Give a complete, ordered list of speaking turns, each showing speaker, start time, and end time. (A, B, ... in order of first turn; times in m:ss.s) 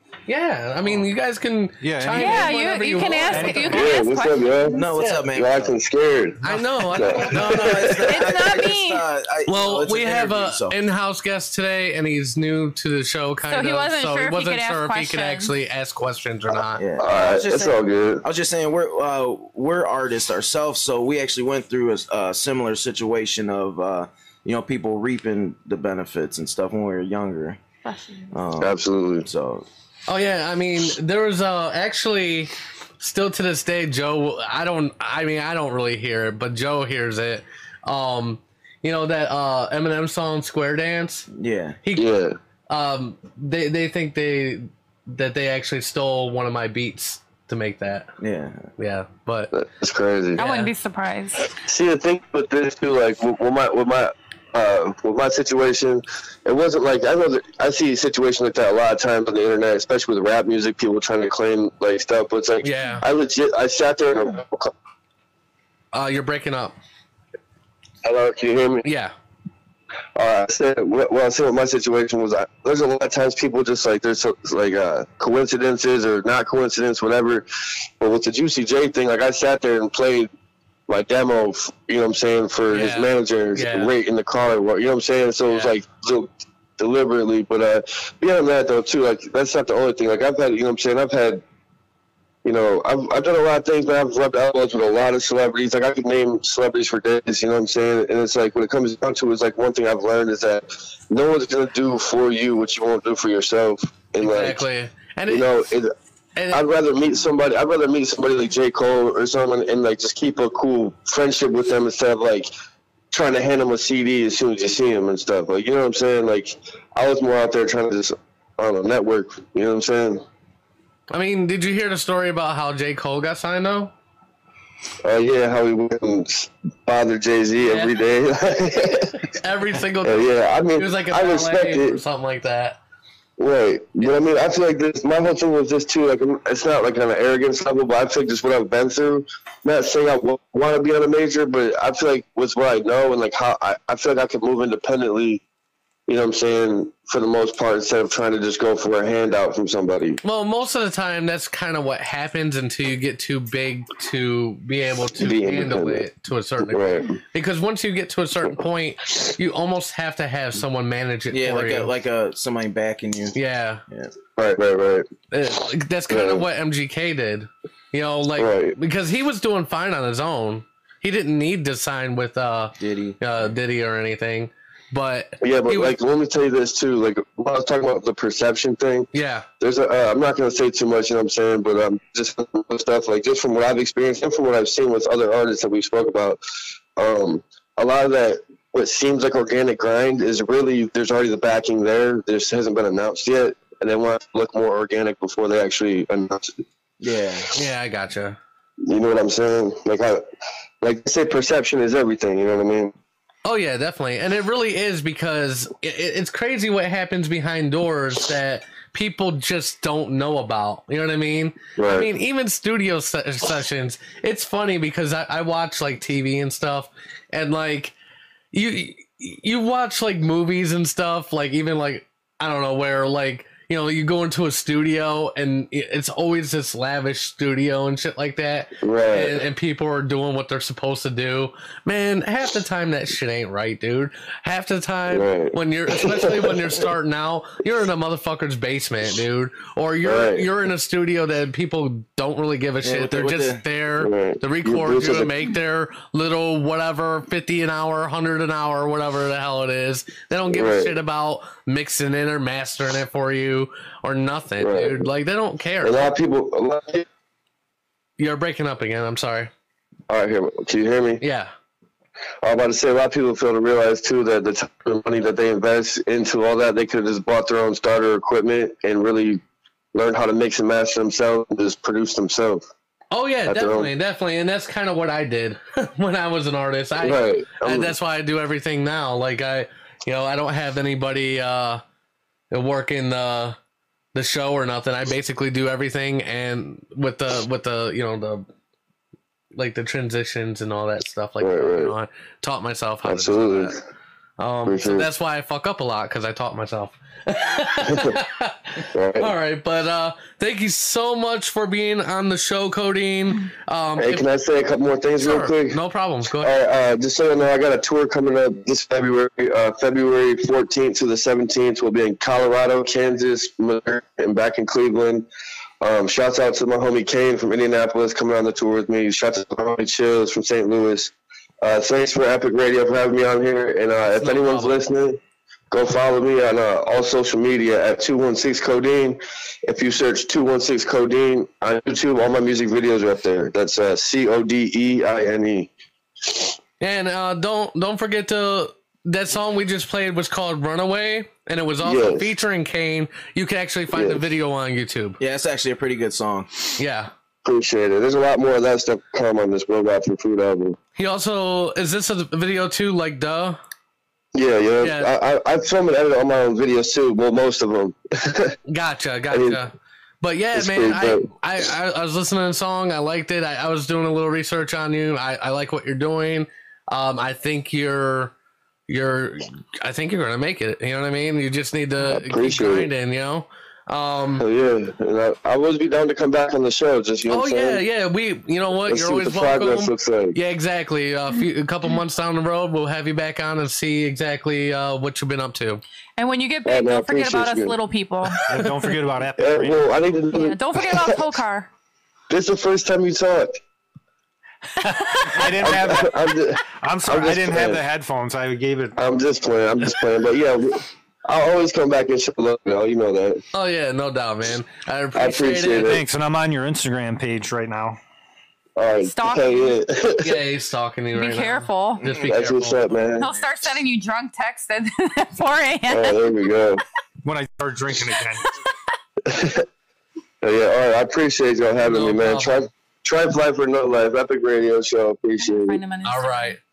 0:00.3-0:03.8 A
0:01.8-0:04.0 B
0:02.2-0:04.8 C
0:03.7-0:08.0 D
0:04.7-0:05.8 E
0:04.9-0:05.2 A
0:06.4-0:08.0 A
0:06.9-0:10.8 E
0:08.0-0:09.0 C
0:09.5-0:16.8 A
0:13.5-0:15.5 C
0:16.7-0:27.6 E
0:17.0-0:18.2 D
0:27.8-0:28.4 C
0:28.3-0:29.6 E
0:28.6-0:29.3 D
0:30.1-0:41.3 A
0:41.3-0:41.8 E
0:41.9-0:42.4 D
0:42.7-0:48.1 A
0:48.2-0:48.7 E
0:48.8-0:49.5 A
0:49.5-0:50.4 D
0:50.4-0:51.4 C
0:50.4-0:50.7 A
0:51.6-1:04.7 D
1:02.6-1:03.0 A
1:05.9-1:06.8 A
1:08.0-1:08.8 D
1:08.8-1:09.1 A
1:10.2-1:17.4 D
1:18.0-1:20.3 D
1:20.9-1:31.4 D
1:22.7-1:23.9 A
1:25.5-1:25.7 A
1:32.4-1:44.6 D
1:44.2-1:45.5 A
1:45.3-1:45.9 D
1:46.4-1:46.6 A
1:46.5-1:52.5 D
1:53.1-2:00.2 D
2:01.1-2:03.9 A
2:05.0-2:09.2 D
2:07.7-2:07.9 A
2:09.2-2:12.8 A
2:10.0-2:12.0 D
2:13.4-2:25.4 D
2:26.1-2:30.2 D
2:30.2-2:41.9 A
2:35.1-2:36.1 D
2:36.6-2:37.2 D
2:41.3-2:43.4 E
2:43.3-2:43.8 A
2:44.4-2:45.1 D
2:45.3-2:56.0 A
2:46.1-2:46.4 D
2:48.4-2:48.8 D
2:52.8-2:53.2 E
2:55.4-2:59.1 D
2:59.1-2:59.4 A
2:59.6-3:06.4 D
3:07.0-3:16.6 D
3:17.0-3:17.4 E
3:17.5-3:18.4 A
3:18.8-3:20.2 D
3:20.8-3:22.9 D
3:23.4-3:37.9 A
3:31.8-3:32.1 D
3:38.5-4:16.1 A
3:48.8-3:49.4 D
3:55.1-3:56.7 D
4:00.0-4:00.5 D
4:02.8-4:03.6 E
4:04.0-4:05.3 D
4:10.5-4:10.9 D
4:14.6-4:15.0 D
4:15.8-4:17.0 D
4:18.2-4:19.5 A
4:20.1-4:21.2 D
4:21.2-4:21.5 A
4:22.4-4:29.4 D
4:29.9-4:32.6 D
4:33.1-4:41.8 A
4:33.4-4:33.9 D
4:37.0-4:37.9 D
4:42.5-4:43.6 A
4:44.1-4:48.5 A
4:49.5-4:53.7 A
4:51.4-4:51.9 D
4:53.0-4:53.8 D
4:54.4-5:04.2 A
4:54.6-4:55.1 D
4:57.8-4:58.2 D
4:58.9-4:59.3 D
5:04.0-5:05.8 D
5:05.2-5:06.5 A
5:06.4-5:15.3 D
5:15.8-5:25.2 D
5:24.1-5:24.8 A
5:25.7-5:35.7 D
5:36.8-5:45.2 A
5:41.8-5:42.3 D
5:43.9-5:44.2 D
5:45.2-5:46.5 E
5:46.8-5:47.1 A
5:47.4-5:50.8 D
5:51.0-5:53.6 A
5:54.3-5:58.5 D
5:54.8-5:55.1 A
5:58.7-6:08.3 A
5:59.3-5:59.6 D
6:00.5-6:01.3 D
6:08.9-6:14.4 A
6:12.0-6:12.9 D
6:14.4-6:17.8 D
6:17.3-6:25.8 A
6:18.9-6:20.4 D
6:26.2-6:28.4 C
6:26.6-6:27.8 D
6:28.5-6:29.9 B
6:29.4-6:31.2 D
6:30.3-6:31.7 C
6:32.3-6:33.6 D
6:34.8-6:39.0 B
6:35.1-6:35.4 C
6:35.6-6:37.8 D
6:39.0-6:43.4 D
6:43.5-6:46.0 A
6:45.1-6:46.0 D
6:45.8-6:48.0 B
6:48.8-6:50.4 D
6:49.0-6:49.8 C
6:50.2-6:52.9 A
6:51.1-6:52.0 C
6:52.2-6:53.3 D
6:53.2-6:56.2 C
6:55.9-6:56.8 D
6:57.2-6:58.4 B
6:59.3-6:59.6 D
7:00.4-7:05.8 D
7:01.8-7:02.6 A
7:05.4-7:06.6 C
7:06.0-7:06.6 A